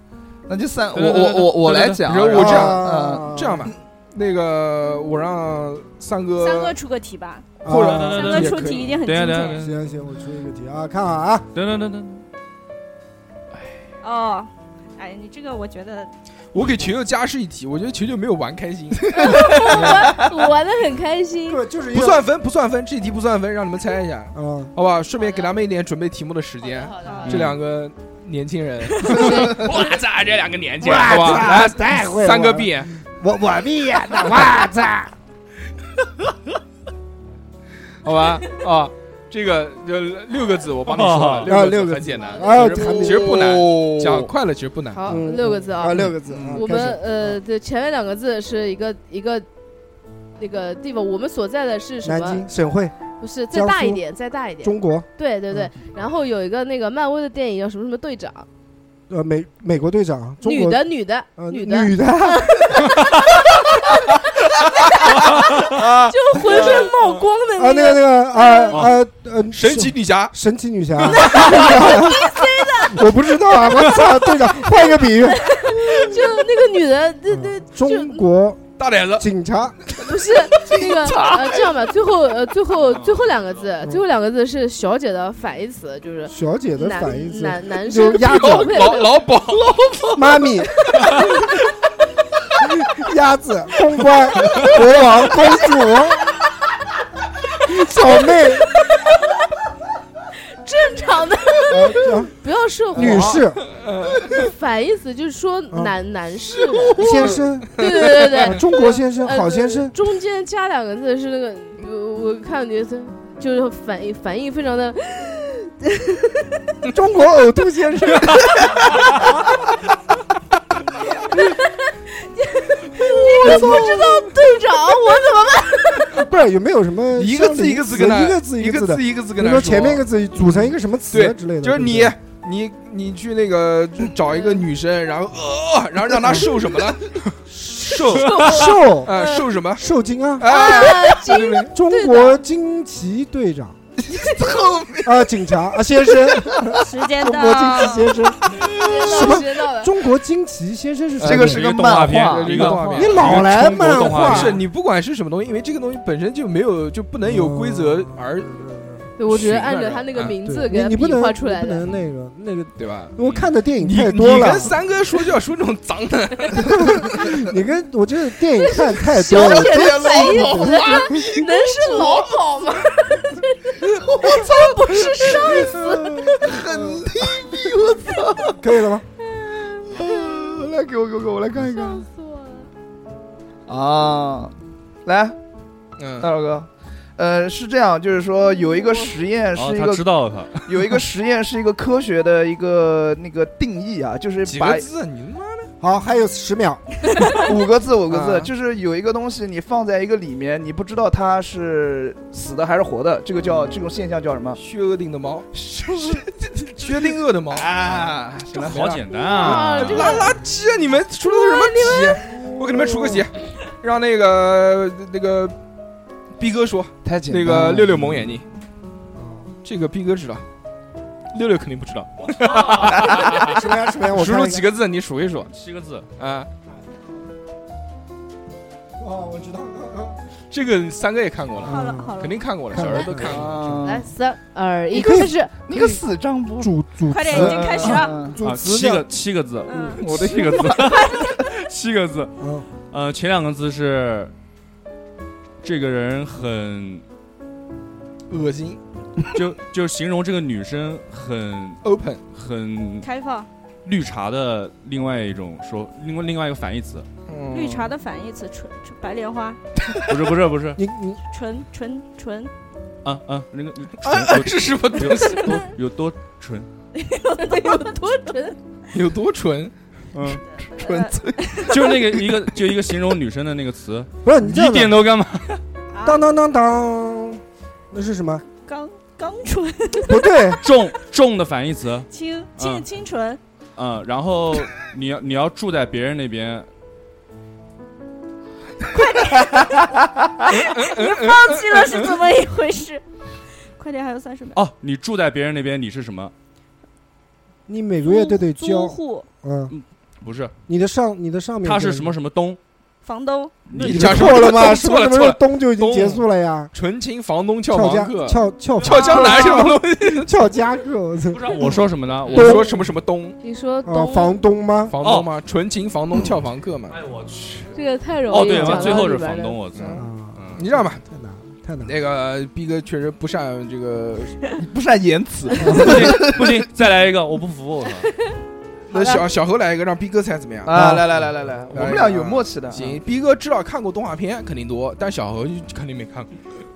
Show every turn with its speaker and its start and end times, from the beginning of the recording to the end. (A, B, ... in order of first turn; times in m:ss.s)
0:00.5-0:03.3 A
0:00.9-0:02.0 B
0:02.0-0:06.7 C
0:02.3-0:03.7 D
0:06.4-0:07.5 E
0:07.6-0:08.4 D
0:07.6-0:08.9 C
0:07.7-0:09.8 B
0:08.1-0:09.6 E
0:09.5-0:11.5 D
0:11.5-0:12.2 B
0:14.0-0:16.1 E
0:16.5-0:20.1 C
0:19.1-0:19.6 A
0:19.2-0:21.6 F
0:21.5-0:22.2 D
0:21.9-0:32.9 C
0:24.3-0:24.7 D
0:26.6-0:27.4 F
0:27.0-0:27.3 E
0:27.2-0:27.6 B
0:29.0-0:29.6 F
0:30.8-0:35.1 D
0:38.0-0:45.0 C
0:40.9-0:41.5 B
0:41.4-0:43.4 D
0:42.2-0:42.6 F
0:42.9-0:44.3 A
0:44.9-0:49.4 F
0:45.0-0:47.4 D
0:46.2-0:46.6 A
0:50.4-0:52.5 F
0:52.0-0:53.0 D
0:53.2-0:58.5 F
0:53.5-0:54.0 D
0:54.6-0:55.7 D
0:59.1-1:00.8 D
1:00.4-1:02.8 F
1:01.4-1:02.7 D
1:05.8-1:06.8 A
1:06.1-1:08.9 F
1:07.6-1:15.6 D
1:09.5-1:10.3 C
1:11.1-1:13.0 F
1:14.4-1:14.8 F
1:15.4-1:18.2 F
1:17.3-1:18.6 D
1:18.8-1:19.3 C
1:19.2-1:19.8 D
1:19.9-1:29.2 F
1:20.5-1:21.7 A
1:22.8-1:23.2 B
1:26.3-1:28.7 D
1:28.2-1:30.2 C
1:30.1-1:30.8 D
1:32.6-1:36.3 D
1:37.6-1:38.7 D
1:40.6-1:43.4 F
1:41.7-1:42.3 D
1:42.9-1:43.6 D
1:43.1-1:44.4 C
1:44.3-1:56.6 F
1:47.0-1:50.0 D
1:47.2-1:47.8 C
1:56.9-1:58.7 D
2:01.3-2:06.2 F
2:03.4-2:04.0 D
2:06.1-2:12.1 D
2:07.1-2:10.6 C
2:11.1-2:17.1 C
2:17.6-2:19.1 D
2:17.7-2:19.8 C
2:18.2-2:19.4 F
2:19.8-2:20.9 D
2:20.4-2:21.7 C
2:20.4-2:22.4 F
2:21.3-2:21.6 A
2:21.7-2:23.8 D
2:24.0-2:25.2 A
2:25.0-2:31.7 D
2:26.7-2:28.2 E
2:28.5-2:29.9 F
2:28.7-2:29.2 A
2:31.2-2:38.5 C
2:31.2-2:33.1 A
2:31.4-2:34.6 B
2:32.9-2:34.6 D
2:37.2-2:39.1 D
2:39.2-2:41.8 F
2:39.3-2:40.3 C
2:40.4-2:44.7 D
2:42.8-2:47.2 C
2:46.6-2:51.3 D
2:48.8-2:56.3 F
2:49.1-2:52.3 A
2:53.8-2:58.6 A
2:55.5-2:57.1 D
2:58.6-2:59.0 D
2:59.4-3:00.1 F
2:59.8-3:02.0 A
3:01.6-3:02.7 F
3:03.7-3:05.4 A
3:06.0-3:06.3 C
3:06.2-3:14.8 A
3:08.6-3:09.1 F
3:09.5-3:10.7 B
3:14.4-3:15.7 C
3:15.8-3:16.8 D
3:17.3-3:24.6 A
3:18.1-3:18.5 C
3:24.6-3:25.5 C
3:25.5-3:28.8 A
3:26.5-3:35.6 C
3:28.6-3:30.1 B
3:29.2-3:30.4 F
3:31.3-3:32.5 F
3:36.4-3:38.4 C
3:37.0-3:38.3 A
3:39.1-3:39.5 D
3:39.6-3:40.4 C
3:41.3-3:45.5 C
3:42.4-3:43.0 B
3:43.2-3:44.6 D
3:45.5-3:46.1 B
3:46.2-3:46.5 C
3:49.0-3:50.2 D
3:50.5-3:53.8 C
3:51.6-3:53.7 D
3:51.6-3:53.0 E
3:53.2-3:54.1 A
3:53.8-3:55.5 F
3:54.9-3:56.0 D
3:55.6-3:58.4 A
3:56.6-3:59.1 D
3:57.1-3:58.3 E
3:58.4-4:02.3 B
3:59.7-4:00.0 E
4:00.0-4:01.2 A
4:00.8-4:01.4 E
4:02.4-4:02.6 D
4:02.9-4:04.3 B
4:05.6-4:07.0 B
4:08.3-4:08.8 C
4:09.3-4:13.1 B
4:11.8-4:12.2 C
4:13.0-4:13.5 E
4:13.8-4:17.1 B
4:17.3-4:17.9 C
4:17.5-4:19.6 E
4:20.1-4:20.8 B
4:20.8-4:21.2 D
4:21.3-4:22.5 E
4:23.0-4:26.7 B
4:24.0-4:25.6 C
4:26.9-4:28.6 E
4:27.4-4:28.6 F
4:28.9-4:29.7 C
4:30.1-4:30.4 B
4:30.6-4:32.1 A
4:30.8-4:31.8 E
4:31.7-4:35.6 B
4:34.2-4:35.0 D
4:35.9-4:36.2 E
4:36.0-4:38.4 D
4:38.6-4:40.6 E
4:40.0-4:40.6 D
4:40.6-4:42.9 B
4:42.1-4:43.4 E
4:43.8-4:46.7 B
4:48.9-4:49.9 E
4:50.5-4:52.2 C
4:50.5-4:53.0 E
4:53.8-4:54.6 E
4:54.5-4:56.3 B
4:57.7-4:59.7 D
4:58.0-4:59.2 E
4:59.7-5:00.5 B
5:00.7-5:02.1 D
5:01.6-5:02.6 B
5:03.0-5:03.5 E
5:03.7-5:04.6 B
5:03.7-5:06.7 D
5:03.8-5:10.5 C
5:07.7-5:12.7 D
5:11.3-5:12.7 B
5:12.2-5:13.4 C
5:13.4-5:14.4 F
5:13.8-5:14.9 D
5:14.9-5:17.0 C
5:15.0-5:15.3 B
5:16.9-5:17.7 B
5:17.7-5:19.9 F
5:18.3-5:20.6 B
5:18.5-5:19.0 C
5:19.7-5:20.0 C
5:19.9-5:21.9 D
5:20.5-5:21.0 C
5:21.8-5:24.4 C
5:24.6-5:26.7 A
5:25.6-5:26.2 D
5:25.7-5:28.1 B
5:28.9-5:31.0 C
5:30.6-5:33.0 A
5:30.7-5:31.2 D
5:31.7-5:36.3 C